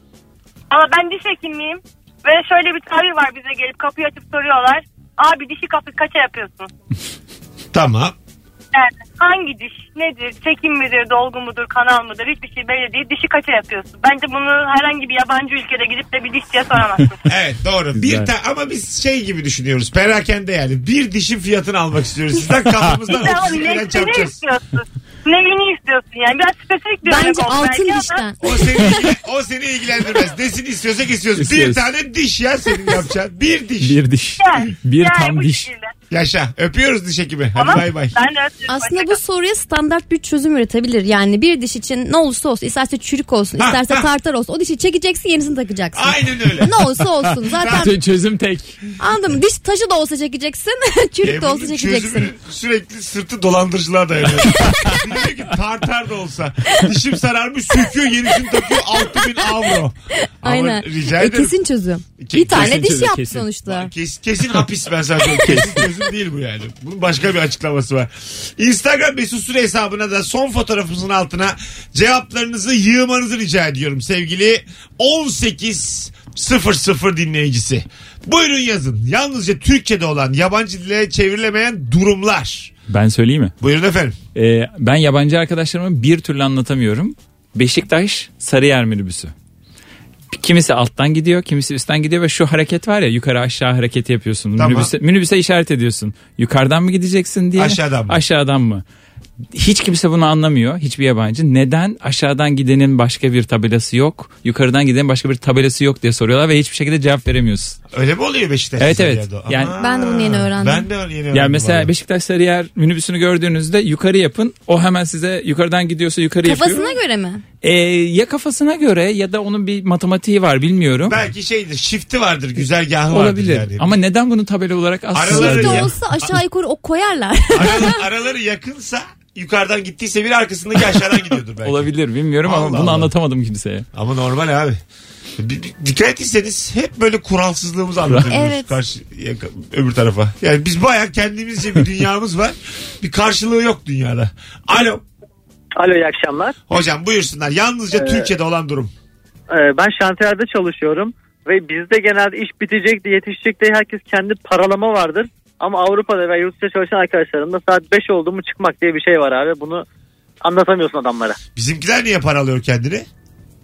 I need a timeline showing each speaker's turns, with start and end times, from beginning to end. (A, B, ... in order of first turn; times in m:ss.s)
0:00.7-0:06.7 A
0:07.7-0:08.1 B
0:08.7-0:17.2 A
0:17.2-0:24.4 B
0:18.0-0:18.3 C
0:23.1-0:28.2 A
0:27.0-0:28.6 D
0:28.4-0:34.0 B
0:31.4-0:31.8 C
0:33.8-0:35.7 C
0:34.4-0:35.9 A
0:36.1-0:38.2 B
0:37.6-0:39.2 A
0:38.7-0:48.0 D
0:43.6-0:44.0 B
0:45.9-0:46.8 B
0:47.3-0:48.8 C
0:47.5-0:47.9 B
0:49.0-0:52.3 D
0:51.2-1:01.5 B
0:54.6-0:54.9 C
1:00.3-1:03.9 D
1:02.2-1:02.9 B
1:02.4-1:03.5 C
1:03.7-1:22.7 B
1:05.4-1:05.9 C
1:22.9-1:23.5 C
1:23.6-1:24.2 B
1:24.3-1:29.3 C
1:30.3-1:38.8 C
1:34.6-1:34.9 B
1:37.6-1:38.2 B
1:39.5-1:47.8 C
1:47.9-1:51.9 B
1:48.8-1:49.8 C
1:49.8-1:50.9 D
1:51.3-1:57.0 C
1:56.4-1:57.4 D
1:57.6-2:01.2 C
2:01.0-2:03.9 B
2:03.1-2:05.9 C
2:05.1-2:06.3 B
2:05.3-2:08.0 D
2:07.5-2:11.9 B
2:11.6-2:13.8 C
2:12.4-2:13.1 B
2:13.9-2:14.8 B
2:15.4-2:25.0 B
2:18.3-2:18.8 D
2:25.8-2:26.6 E
2:26.7-2:28.9 B
2:27.9-2:28.3 E
2:29.5-2:39.8 E
2:40.4-2:41.4 E
2:41.6-2:43.1 B